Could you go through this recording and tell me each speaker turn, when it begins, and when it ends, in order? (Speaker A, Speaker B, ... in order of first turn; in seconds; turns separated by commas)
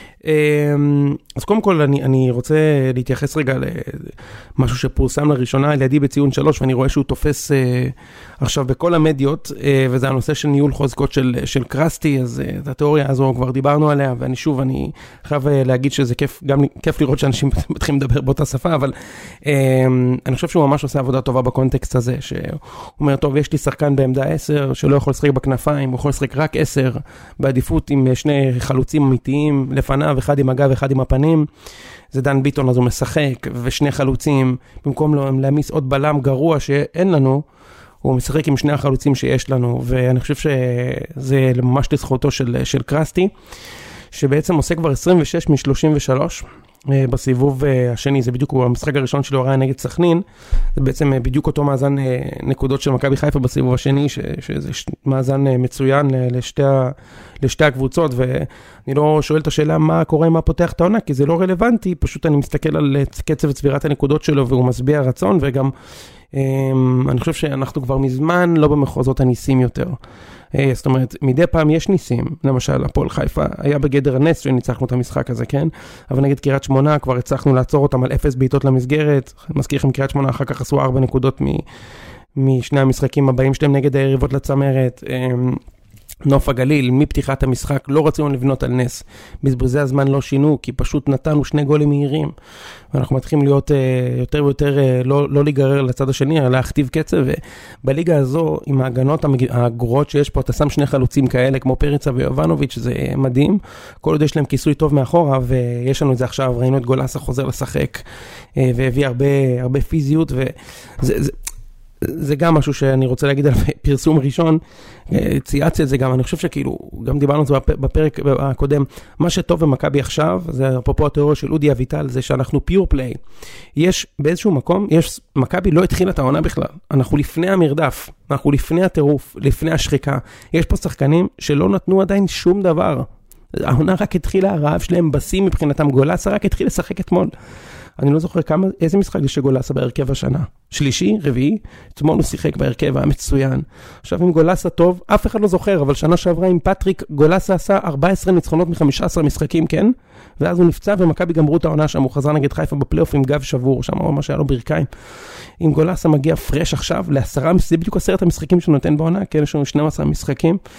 Speaker A: 0.2-31.5, Speaker A: 32.1-37.4, Speaker A: 38.0-43.3, Speaker A: 44.1-50.2, Speaker A: 50.8-65.7, Speaker A: 66.3-70.0, Speaker A: 70.5-81.6, Speaker A: 82.4-85.6, Speaker A: 86.3-92.3, Speaker A: 92.9-108.0, Speaker A: 108.6-111.3, Speaker A: 112.0-123.2, Speaker A: 123.8-137.3, Speaker A: 138.0-154.9, Speaker A: 155.6-160.6